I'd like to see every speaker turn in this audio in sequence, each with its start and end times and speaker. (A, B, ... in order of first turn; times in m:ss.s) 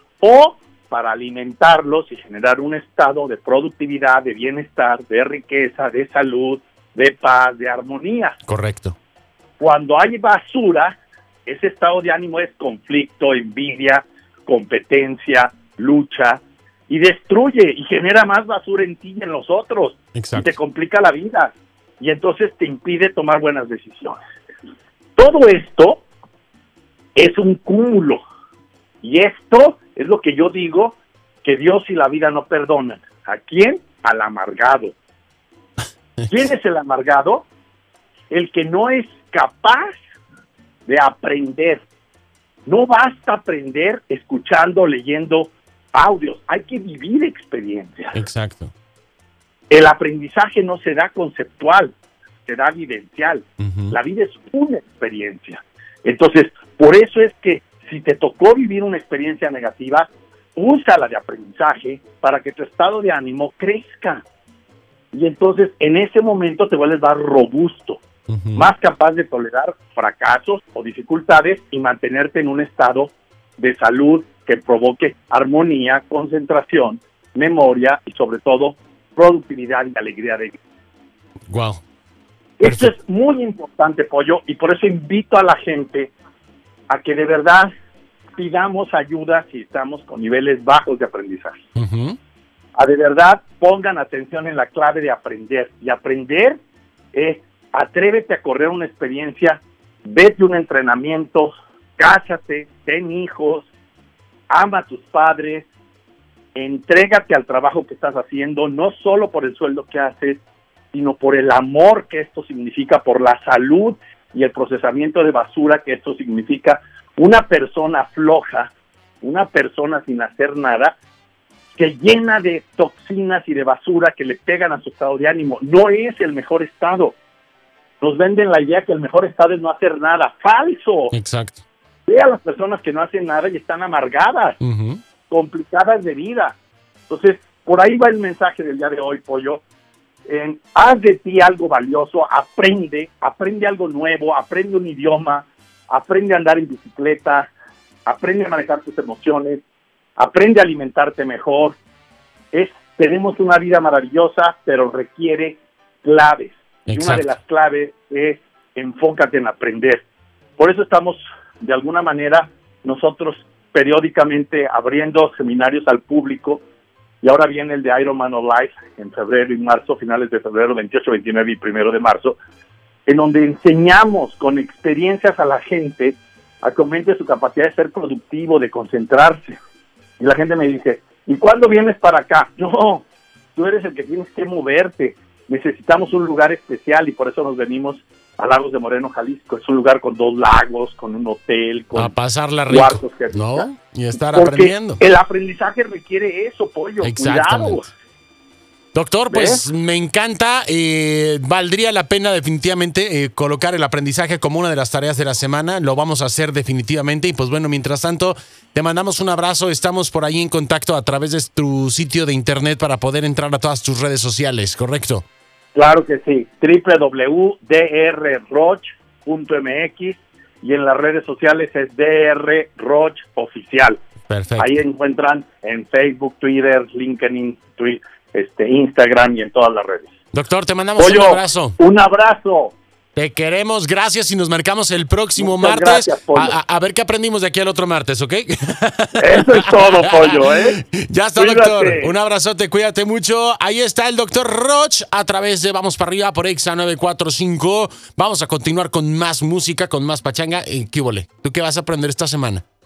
0:00.2-0:08.4 A
0:08.5-0:09.0 B
0:09.6-0:24.2 A
0:20.1-0:20.5 B
0:25.2-0:26.0 A
0:27.1-0:28.2 A
0:29.0-0:34.9 A
0:36.3-0:37.5 A
0:38.3-0:40.0 A
0:40.9-0:41.8 A
0:42.6-0:48.2 A
0:48.1-0:48.7 B
0:49.7-0:51.9 A
0:52.4-1:04.2 A
0:53.6-0:53.9 B
1:05.1-1:08.0 A
1:08.3-1:08.6 B
1:08.6-1:20.6 A
1:21.5-1:21.8 B
1:22.6-1:26.1 A
1:22.6-1:22.9 B
1:26.9-1:27.7 A
1:28.3-1:31.6 A
1:31.8-1:32.2 B
1:32.8-1:36.6 A
1:37.1-1:43.7 A
1:44.5-1:45.7 A
1:46.5-1:50.4 A
1:50.9-2:00.9 A
2:01.8-2:07.2 A
2:08.0-2:11.1 A
2:11.1-2:11.6 B
2:12.1-2:14.6 A
2:14.6-2:15.0 B
2:15.3-2:16.6 A
2:17.1-2:19.6 A
2:20.3-2:27.5 A
2:28.0-2:29.6 A
2:30.2-2:31.8 A
2:32.5-2:40.0 A
2:36.9-2:37.2 B
2:40.6-2:46.6 A
2:47.2-2:52.4 A
2:53.1-2:59.6 A
3:00.2-3:12.1 A
3:11.9-3:15.0 B
3:12.7-3:13.7 A
3:14.3-3:17.9 A
3:17.0-3:17.9 B
3:18.9-3:35.2 B
3:19.3-3:19.6 A
3:35.7-3:44.0 A
3:44.3-3:44.7 B
3:44.6-3:50.1 A
3:50.3-3:51.8 B
3:51.0-3:52.8 A
3:53.2-4:12.6 B
3:55.4-3:56.6 A
3:59.2-4:00.8 A
4:01.4-4:02.1 A